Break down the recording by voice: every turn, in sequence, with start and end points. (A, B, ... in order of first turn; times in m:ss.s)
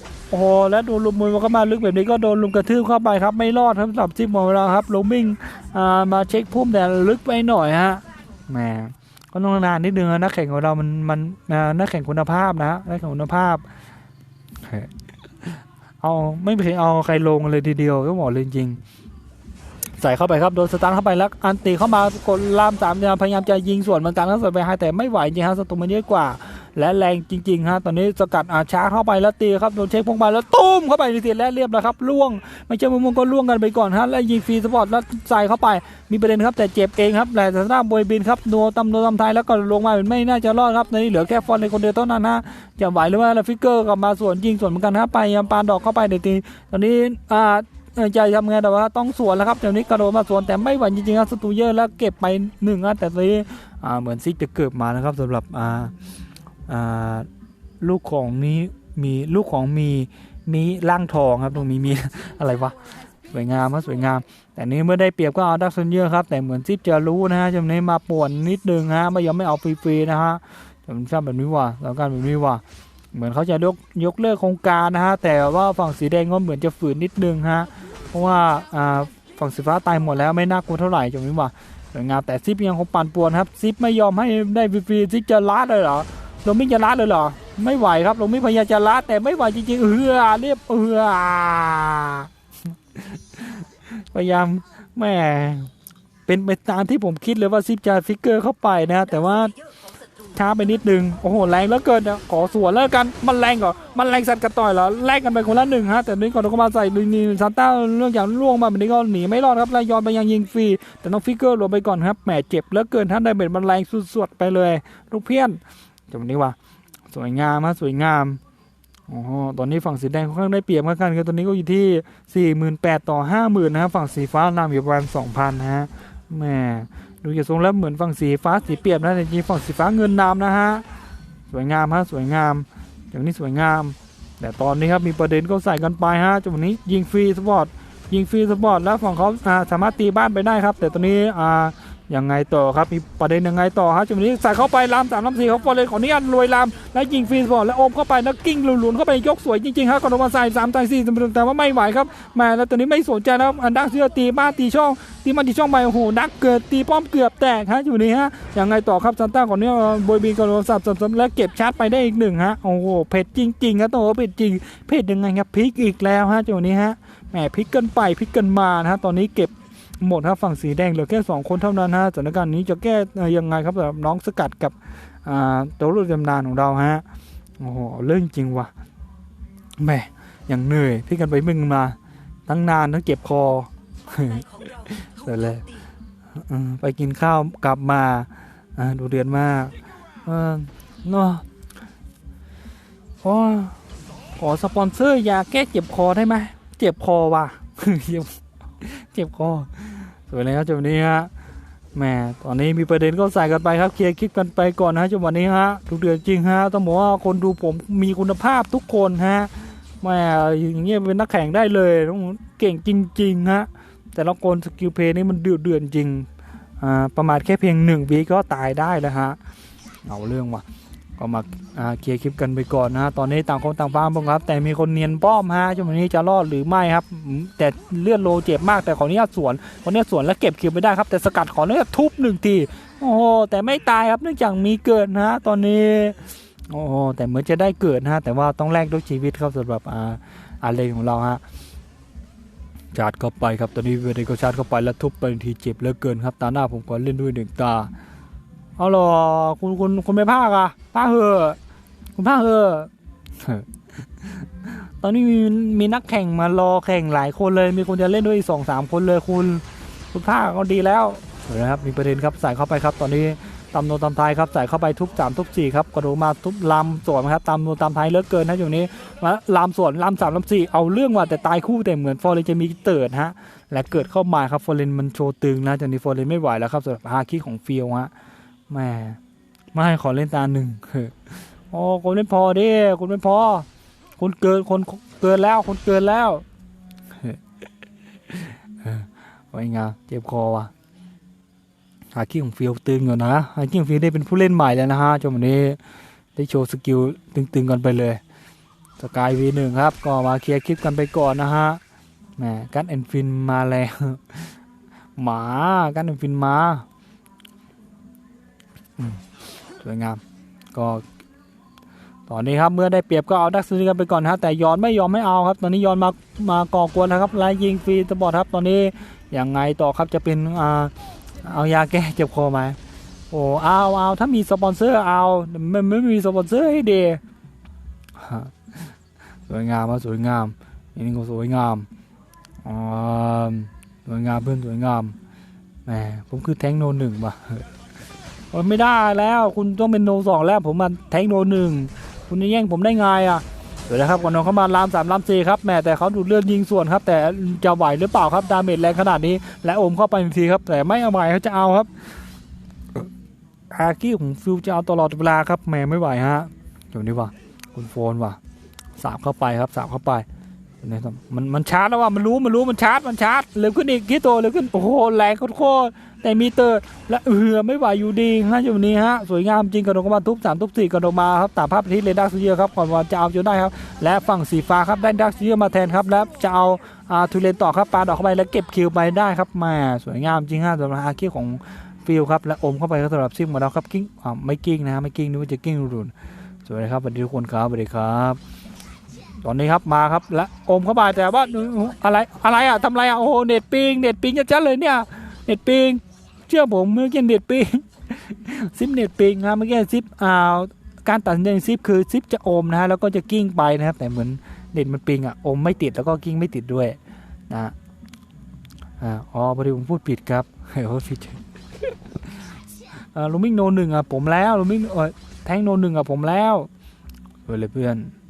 0:00.3-0:13.6 A
0:14.6-0:14.9 A
0:15.4-0:18.8 A
0:20.0-0:55.9 A
0:56.7-0:57.3 A
0:57.8-1:12.6 A
1:13.1-1:32.3 A
1:33.0-1:35.7 A
1:36.3-1:39.6 A
1:40.3-1:55.6 A
1:56.1-1:56.6 A
1:57.1-1:58.4 A
1:59.1-2:10.8 A
2:11.5-2:57.0 A
2:57.6-2:58.7 A
2:59.8-3:05.7 A
3:06.4-3:11.4 A
3:13.2-3:13.8 A
3:14.4-3:21.3 A
3:22.0-3:36.3 A
3:36.8-3:39.4 A
3:40.1-3:40.6 A
3:41.2-4:01.4 A
4:02.9-4:07.9 A
4:08.8-4:11.6 A
4:12.2-4:38.1 A
4:38.7-4:39.2 A
4:39.7-4:43.7 A
4:44.2-4:46.4 A
4:48.3-4:50.7 A
4:52.1-4:55.8 A
4:56.4-4:58.2 A
4:59.0-5:01.8 A
5:02.4-5:04.5 A
5:05.2-5:06.8 A
5:09.8-5:10.2 A
5:10.7-5:11.0 A
5:12.3-5:20.9 A
5:21.4-5:22.8 A
5:23.3-5:27.2 A
5:28.2-5:28.9 A
5:29.5-5:31.9 A
5:32.6-5:35.2 A
5:35.9-5:37.7 A
5:38.5-5:51.9 A
5:53.7-5:58.4 A
5:59.0-6:00.3 A
6:00.8-6:26.1 A
6:26.6-6:28.4 A
6:29.4-6:47.0 A
6:49.0-6:51.9 A
6:53.1-6:56.7 A
6:57.5-6:58.1 A